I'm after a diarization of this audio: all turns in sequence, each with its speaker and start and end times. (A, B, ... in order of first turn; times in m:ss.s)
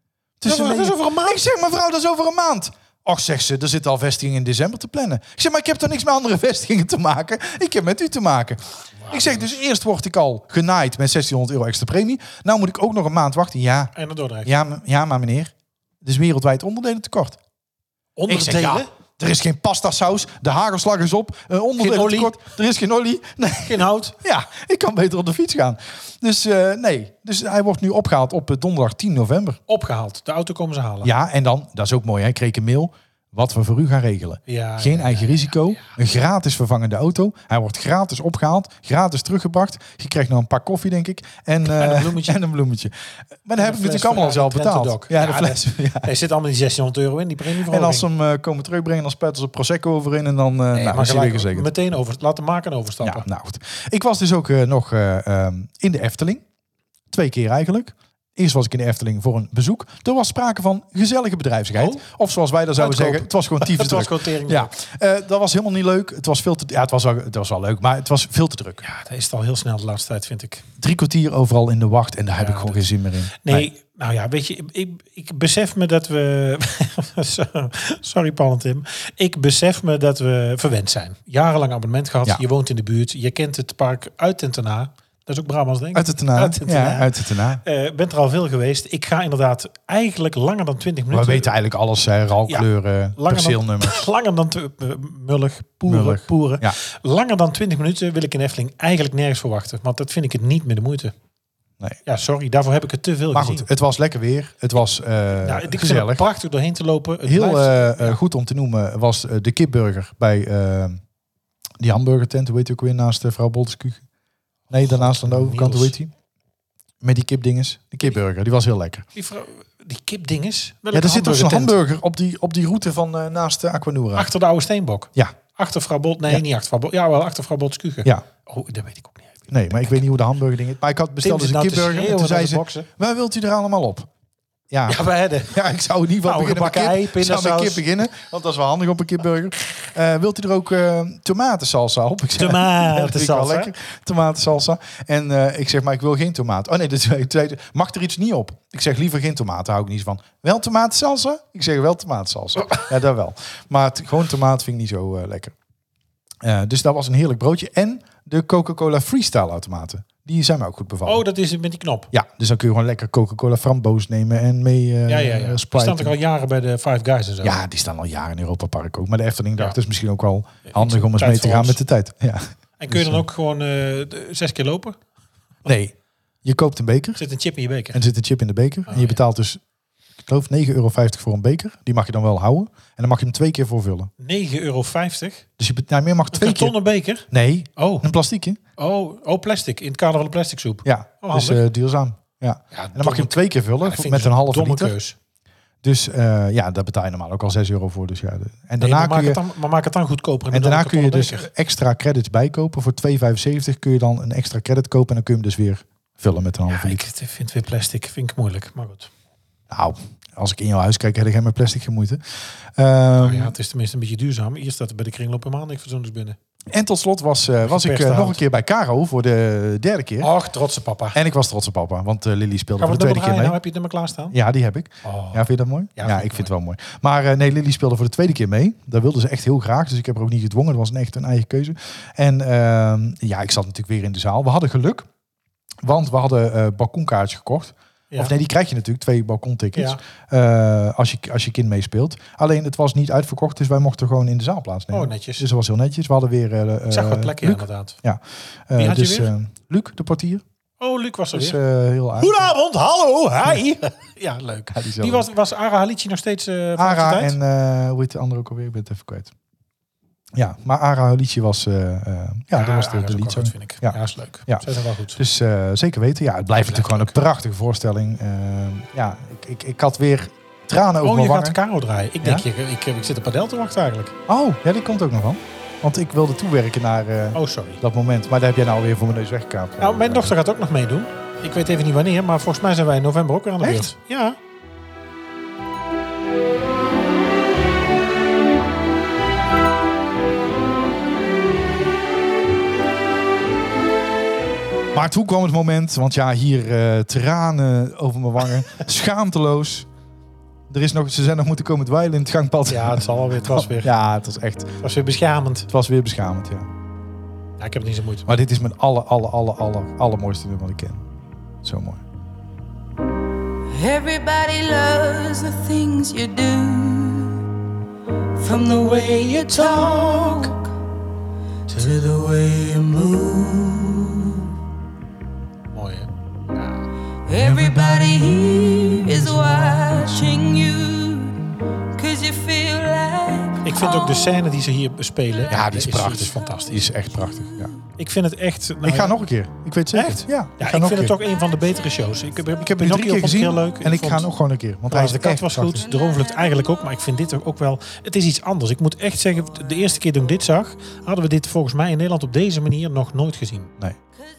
0:00.4-0:13.9 A
0:00.4-0:01.4 B
0:09.0-0:09.6 B
0:14.0-0:14.5 B
0:14.4-0:17.4 A
0:18.2-0:18.9 B
0:18.3-0:29.6 A
0:21.8-0:22.3 B
0:23.6-0:24.2 B
0:29.7-0:31.1 B
0:31.0-0:46.1 A
0:34.5-0:36.0 B
0:41.6-0:42.4 B
0:43.6-0:48.1 B
0:47.7-0:51.7 A
0:50.7-0:53.2 B
0:53.0-0:56.4 A
0:57.1-1:08.8 A
1:01.7-1:02.0 B
1:02.8-1:04.7 B
1:08.8-1:10.6 B
1:10.8-1:13.7 A
1:12.4-1:31.5 B
1:25.9-1:27.6 A
1:31.1-1:34.0 A
1:32.5-1:41.1 B
1:35.8-1:36.8 A
1:42.0-1:43.7 B
1:43.3-1:46.2 A
1:45.4-1:48.2 B
1:47.2-1:51.0 A
1:51.8-1:54.0 A
1:54.7-1:56.1 A
1:54.7-1:56.0 B
1:57.0-1:59.1 A
1:59.2-2:01.8 B
2:00.9-2:04.3 A
2:04.1-2:10.0 B
2:09.5-2:14.1 A
2:11.2-2:12.9 B
2:14.7-2:35.5 A
2:14.9-2:15.6 B
2:16.2-2:17.8 B
2:22.4-2:23.7 B
2:36.4-2:41.2 A
2:41.0-2:42.1 B
2:42.1-2:46.1 A
2:45.1-2:47.6 B
2:47.4-2:53.2 A
2:50.7-2:51.8 B
2:52.8-2:55.0 B
2:55.6-2:57.2 A
2:57.2-2:58.0 B
2:57.9-2:59.6 A
2:58.9-2:59.2 B
3:00.2-3:04.1 A
3:04.2-3:05.4 B
3:05.6-3:06.8 A
3:06.3-3:08.1 B
3:07.3-3:08.6 A
3:08.8-3:11.6 B
3:10.8-3:15.0 A
3:12.7-3:15.1 B
3:15.8-3:19.4 A
3:18.8-3:21.5 B
3:20.5-3:27.0 A
3:26.7-3:29.1 B
3:29.7-3:32.2 A
3:32.8-3:33.5 A
3:33.2-3:36.4 B
3:36.7-3:40.3 A
3:37.6-3:38.4 B
3:40.2-3:41.2 B
3:41.1-3:43.6 A
3:42.8-3:44.4 B
3:44.3-3:55.1 A
3:45.0-3:46.5 B
3:55.8-4:10.4 A
3:59.7-4:00.0 B
4:04.9-4:05.5 B
4:06.9-4:08.0 B
4:08.8-4:09.3 B
4:10.8-4:11.6 B
4:11.3-4:12.5 A
4:12.2-4:17.4 B
4:14.7-4:15.3 A
4:16.8-4:19.3 A
4:20.3-4:31.6 A
4:22.5-4:25.2 B
4:26.6-4:27.2 B
4:31.0-4:34.2 B
4:34.3-4:40.3 A
4:37.3-4:37.8 B
4:39.8-4:44.4 B
4:43.6-4:43.9 A
4:54.9-4:59.9 A
5:00.7-5:04.7 A
5:02.7-5:03.9 B
5:04.8-5:05.7 B
5:05.7-5:06.7 A
5:07.6-5:08.2 B
5:08.2-5:11.0 A
5:11.6-5:12.0 A
5:13.7-5:17.4 C
5:18.4-5:20.6 C
5:21.7-5:24.4 C
5:25.7-5:26.9 B
5:27.3-5:31.4 C
5:27.4-5:27.8 A
5:31.9-5:34.4 C
5:33.6-5:36.9 B
5:35.5-5:37.7 A
5:38.0-5:39.2 B
5:38.8-5:41.2 A
5:39.9-5:44.3 B
5:42.6-5:45.8 A
5:44.9-5:53.7 B